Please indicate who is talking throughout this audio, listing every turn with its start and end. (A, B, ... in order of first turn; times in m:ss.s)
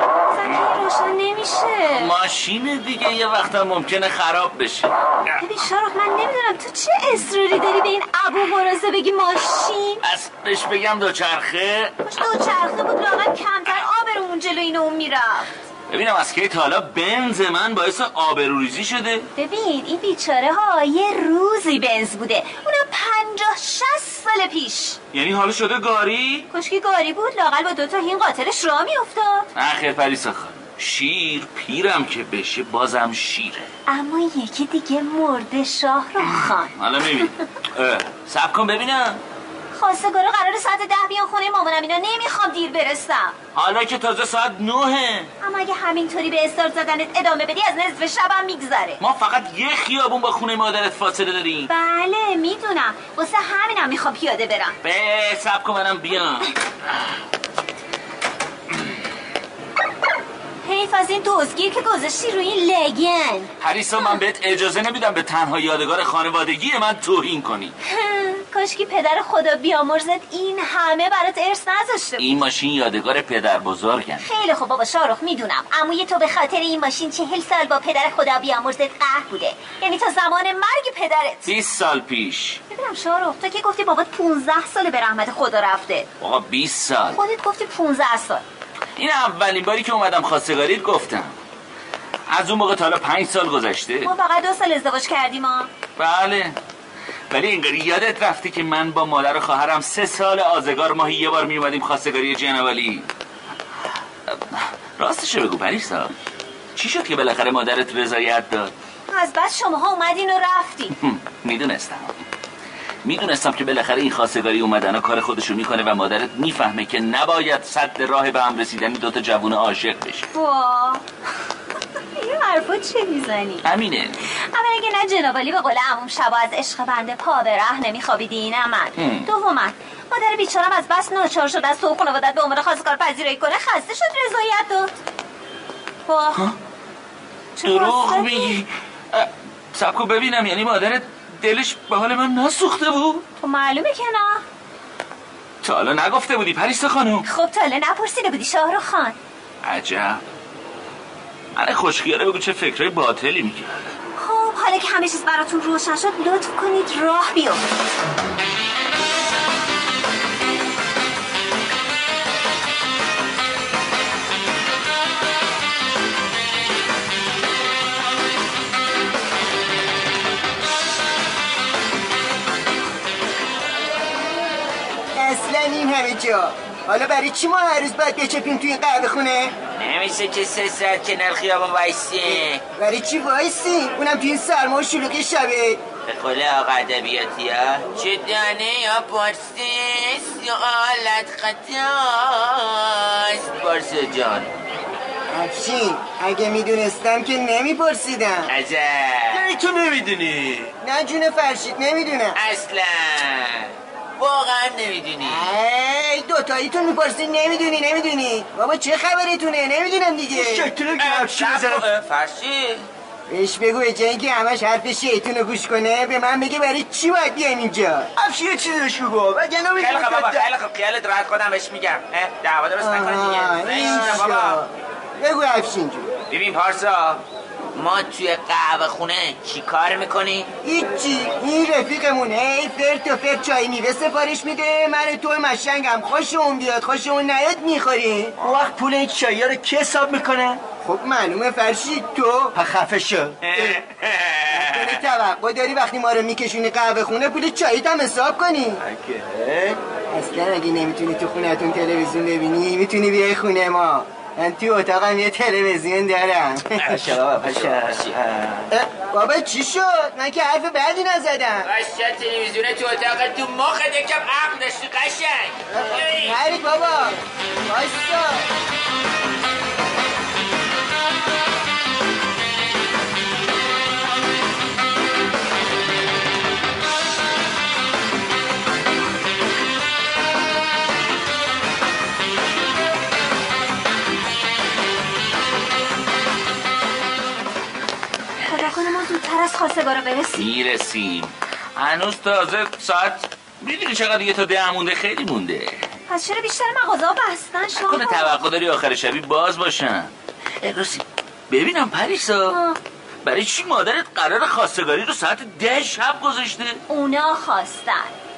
0:00.3-0:02.1 A
0:02.0-0:04.9 B
0:05.4-0:10.0 A
0:10.0-0:12.0 B
0:12.0-0:15.5 A
0:15.9-0:19.3 B
0:19.4-0:25.0 A
0:25.1-0:26.5 B
0:26.5-0:29.5 A
0:29.6-0:33.7 B
0:33.9-0:36.7 A
0:36.2-0:39.2 B
0:39.7-0:43.4 A
0:43.6-0:45.3 B
0:45.4-0:49.0 A
0:49.0-0:51.7 B
0:51.7-0:54.8 A
0:54.8-0:56.6 B
1:00.6-1:03.5 A
1:03.6-1:07.8 B
1:07.9-1:12.3 A
1:12.2-1:14.2 B
1:14.2-1:21.5 A
1:21.5-1:22.6 B
1:22.7-1:26.1 A
1:26.2-1:27.2 B
1:27.1-1:28.4 A
1:29.0-1:31.4 B
1:32.3-1:34.1 B
1:34.0-1:35.7 A
1:36.0-1:36.6 B
1:37.3-1:43.1 B
1:44.3-1:46.1 B
1:46.8-1:48.7 B
1:49.1-1:51.0 A
1:50.9-1:52.2 B
1:53.0-2:00.3 B
2:00.3-2:01.0 A
2:02.2-2:03.6 A
2:03.6-2:04.2 B
2:04.4-2:14.9 A
2:09.0-2:09.3 B
2:16.1-2:16.5 A
2:17.6-2:18.6 A
2:17.6-2:23.2 B
2:23.4-2:24.4 A
2:25.6-2:27.3 B
2:27.3-2:29.2 A
2:29.6-2:30.2 B
2:31.6-2:33.9 B
2:34.2-2:37.6 A
2:55.1-2:59.5 C
2:59.8-3:02.6 D
3:02.2-3:05.8 C
3:06.1-3:14.5 D
3:15.3-3:18.5 C
3:18.5-3:19.6 D
3:19.3-3:20.7 E
3:20.8-3:22.4 C
3:22.4-3:25.5 D
3:25.2-3:30.7 C
3:30.3-3:31.9 E
3:31.0-3:32.9 D
3:33.3-3:38.1 C
3:38.2-3:40.5 E
3:39.8-3:44.6 D
3:42.8-3:46.1 C
3:43.8-3:44.1 E
3:46.3-3:47.2 D
3:47.8-3:50.5 D
3:50.6-3:58.4 C
3:58.4-4:00.6 E
4:00.8-4:02.6 C
4:02.5-4:03.8 E
4:03.4-4:03.8 C
4:04.1-4:04.4 D
4:04.5-4:08.8 C
4:08.8-4:09.8 E
4:10.1-4:17.0 C
4:16.8-4:18.2 D
4:16.9-4:18.7 E
4:18.7-4:21.7 C
4:21.6-4:26.4 D
4:25.7-4:28.5 C
4:48.5-4:50.5 A
4:50.4-4:55.8 B
4:56.1-4:58.4 A
4:57.8-5:02.6 B
5:02.5-5:02.8 A
5:03.2-5:06.8 B
5:06.9-5:08.1 A